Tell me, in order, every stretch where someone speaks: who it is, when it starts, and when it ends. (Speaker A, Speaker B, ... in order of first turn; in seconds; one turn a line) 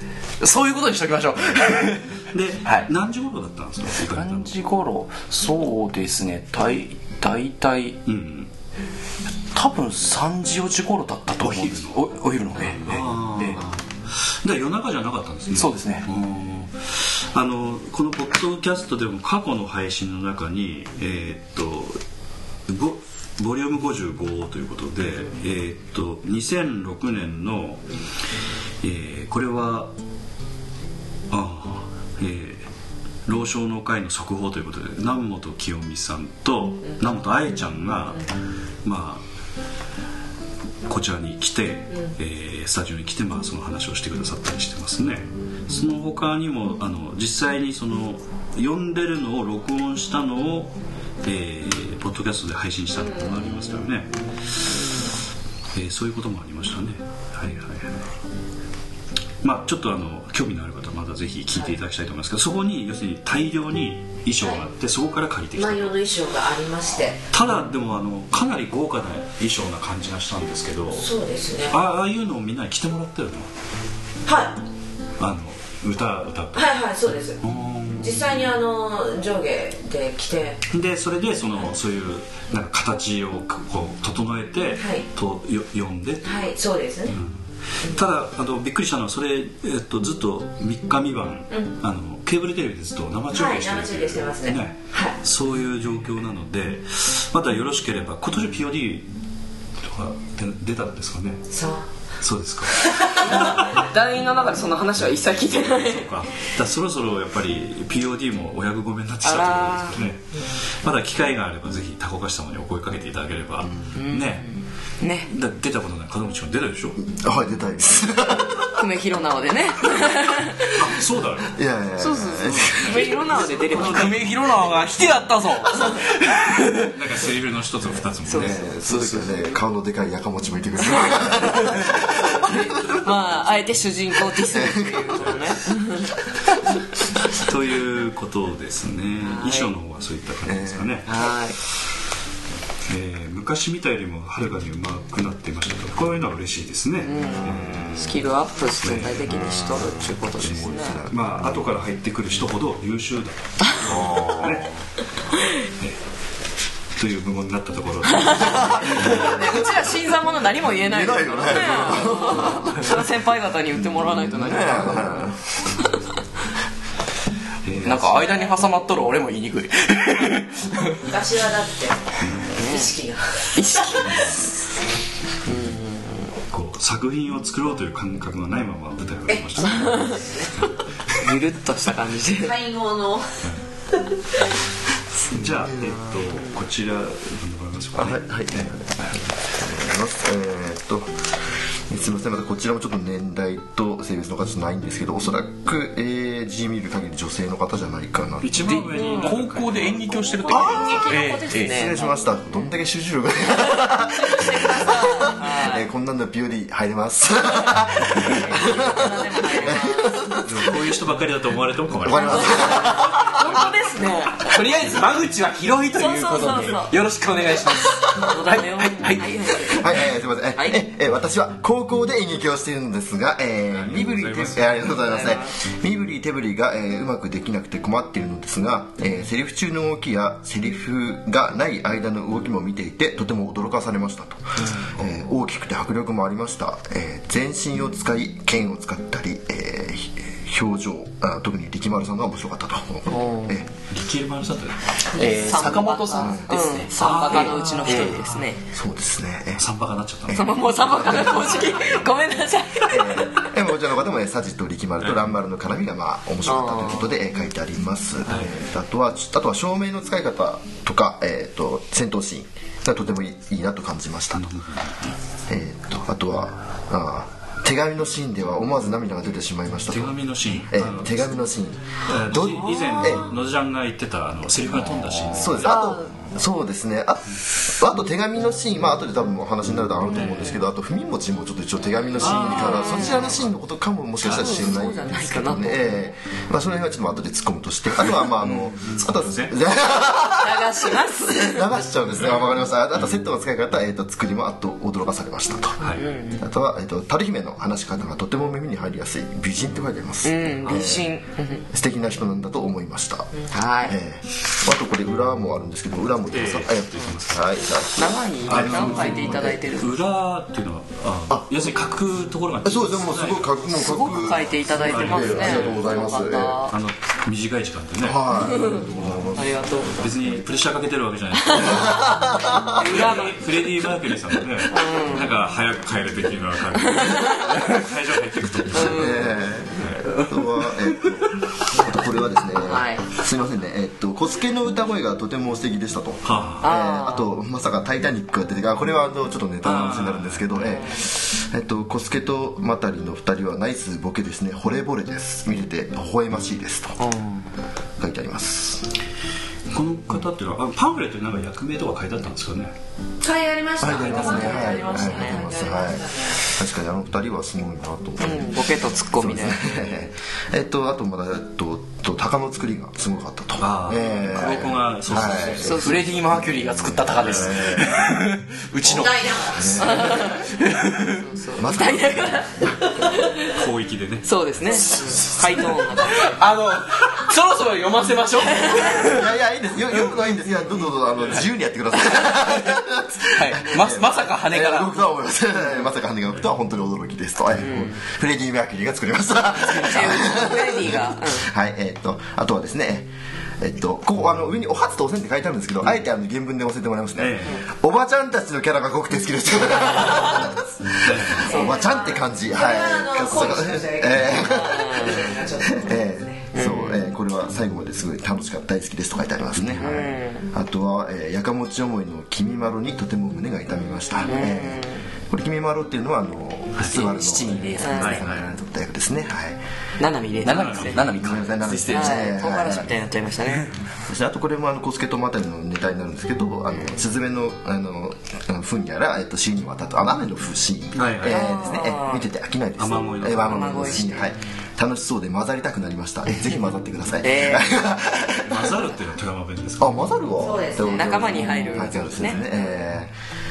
Speaker A: 0.4-2.9
Speaker B: 2.3-4.5
Speaker A: 3.9-8.0
Speaker B: 8.1-8.5
Speaker A: 9.5-13.7
Speaker B: 11.4-12.0
Speaker B: 12.7-22.0
Speaker A: 15.5-16.1
Speaker B: 22.7-27.9
Speaker B: 28.8-29.9
Speaker B: 31.3-32.7
Speaker B: 33.3-38.3
Speaker B: 38.8-39.2
Speaker B: 40.9-55.1
Speaker B: 55.7-58.1
Speaker B: 59.4-66.0
Speaker C: 65.6-67.2
Speaker B: 67.3-71.1
Speaker C: 70.9-71.8
Speaker B: 71.7-73.5
Speaker C: 74.2-74.6
Speaker B: 75.2-76.7
Speaker C: 76.5-77.4
Speaker B: 77.4-78.5
Speaker C: 78.0-80.6
Speaker B: 80.7-86.5
Speaker C: 84.8-85.0
Speaker C: 86.2-87.2
Speaker B: 87.1-99.1
Speaker C: 93.3-95.2
Speaker B: 99.8-101.5
Speaker C: 101.5-101.8
Speaker B: 102.2-103.8
Speaker C: 102.8-103.3
Speaker D: 103.3-106.1
Speaker B: 105.6-114.5
Speaker D: 109.2-110.0
Speaker D: 113.9-115.3
Speaker B: 115.3-117.0
Speaker E: 117.0-118.7
Speaker D: 118.7-120.7
Speaker B: 120.7-121.6
Speaker E: 121.5-123.0
Speaker D: 122.0-124.1
Speaker B: 122.4-125.0
Speaker A: 123.8-126.9
Speaker B: 126.8-128.8
Speaker D: 128.3-128.6
Speaker E: 128.3-132.5
Speaker A: 128.9-129.3
Speaker D: 132.1-136.1
Speaker E: 134.4-135.3
Speaker B: 137.3-141.1
Speaker D: 139.2-139.7
Speaker E: 140.5-140.9
Speaker D: 141.1-141.6
Speaker B: 142.9-148.2
Speaker D: 147.0-151.0
Speaker E: 147.6-147.9
Speaker B: 148.8-149.6
Speaker B: 150.4-154.7
Speaker E: 150.4-151.3
Speaker E: 153.8-154.7
Speaker B: 157.0-159.3
Speaker D: 158.1-165.3
Speaker E: 158.6-159.4
Speaker E: 160.8-162.8
Speaker E: 164.4-165.4
Speaker B: 167.6-168.3
Speaker A: 167.8-171.1
Speaker C: 171.0-172.0
Speaker B: 172.2-172.5
Speaker D: 172.6-172.9
Speaker C: 172.6-174.3
Speaker D: 173.6-174.4
Speaker D: 175.5-176.3
Speaker B: 176.5-180.7
Speaker C: 179.3-180.5
Speaker D: 179.8-180.1
Speaker D: 181.2-182.5
Speaker C: 182.4-183.3
Speaker B: 185.3-188.8
Speaker E: 188.0-191.1
Speaker E: 191.9-198.8
Speaker B: 198.4-200.4
Speaker A: 198.7-201.8
Speaker D: 200.4-202.2
Speaker E: 200.5-201.0
Speaker E: 201.5-210.8
Speaker D: 203.9-205.9
Speaker D: 208.3-210.3
Speaker B: 210.4-213.0
Speaker E: 212.0-213.2
Speaker D: 212.2-214.6
Speaker A: 214.4-219.4
Speaker D: 216.0-216.9
Speaker D: 218.2-220.0
Speaker E: 219.7-243.7
Speaker D: 220.6-220.8
Speaker B: 223.8-225.0
Speaker D: 225.1-225.5
Speaker D: 243.1-243.6
Speaker B: 243.9-245.0
Speaker A: 245.1-248.2
Speaker D: 245.1-248.6
Speaker B: 247.0-248.5
Speaker E: 248.7-249.6
Speaker B: 249.6-251.9
Speaker D: 250.3-253.4
Speaker E: 252.9-264.4
Speaker D: 256.5-257.1
Speaker B: 258.3-258.6
Speaker B: 264.4-265.1
Speaker E: 265.5-273.3
Speaker B: 269.9-271.3
Speaker B: 272.0-275.8
Speaker E: 275.3-295.8
Speaker D: 275.6-276.1
Speaker B: 282.2-283.5
Speaker D: 282.3-283.3
Speaker D: 284.2-286.0
Speaker B: 284.3-284.6
Speaker B: 288.2-289.6
Speaker D: 290.3-291.8
Speaker B: 295.8-296.1
Speaker D: 295.9-296.5
Speaker E: 296.3-301.1
Speaker D: 300.2-301.6
Speaker E: 301.7-309.6
Speaker D: 303.5-304.0
Speaker B: 306.3-307.9
Speaker D: 308.0-309.9
Speaker B: 308.5-313.6
Speaker E: 312.6-316.6
Speaker D: 313.7-316.7
Speaker B: 314.7-315.9
Speaker B: 316.7-318.2
Speaker E: 318.0-319.4
Speaker D: 318.5-320.0
Speaker B: 320.0-330.1
Speaker D: 321.5-322.1
Speaker E: 321.7-322.8
Speaker D: 322.7-323.5
Speaker D: 324.7-325.3
Speaker D: 326.8-327.6
Speaker D: 328.7-329.3
Speaker E: 328.8-347.0
Speaker D: 332.6-333.1
Speaker B: 336.2-336.7
Speaker D: 336.6-337.3
Speaker B: 339.6-340.8
Speaker D: 347.0-347.4
Speaker E: 348.0-348.9
Speaker B: 349.7-352.8
Speaker C: 353.2-356.4
Speaker E: 353.8-365.8
Speaker B: 353.8-354.6
Speaker D: 354.0-355.7
Speaker D: 358.2-359.7
Speaker B: 363.6-366.0
Speaker D: 365.6-366.0
Speaker A: 365.7-369.2
Speaker E: 366.9-367.9
Speaker B: 367.2-367.8
Speaker C: 368.8-370.4
Speaker E: 369.6-370.3
Speaker D: 369.8-370.5
Speaker A: 370.4-371.3
Speaker D: 371.2-373.5
Speaker E: 371.6-372.5
Speaker B: 373.4-374.3
Speaker D: 374.2-376.4
Speaker A: 374.7-379.3
Speaker D: 378.4-379.0
Speaker E: 379.0-419.6
Speaker A: 383.3-385.0
Speaker D: 387.6-387.9
Speaker D: 389.6-391.5
Speaker B: 397.2-397.6
Speaker B: 401.0-401.6
Speaker C: 401.4-406.5
Speaker D: 404.6-405.1
Speaker D: 406.5-407.0
Speaker D: 409.8-410.5
Speaker D: 414.2-415.0
Speaker A: 416.9-418.2
Speaker D: 417.8-418.2
Speaker B: 418.0-418.4
Speaker D: 420.0-421.0
Speaker A: 420.4-422.3
Speaker B: 420.5-421.1
Speaker E: 421.2-422.9
Speaker D: 421.9-423.7
Speaker E: 424.1-438.7
Speaker B: 430.9-431.5
Speaker D: 431.3-432.2
Speaker B: 432.8-434.1
Speaker D: 433.5-434.3
Speaker D: 437.2-437.7
Speaker B: 438.4-440.1
Speaker E: 439.8-443.1
Speaker C: 440.4-441.5
Speaker D: 440.9-442.4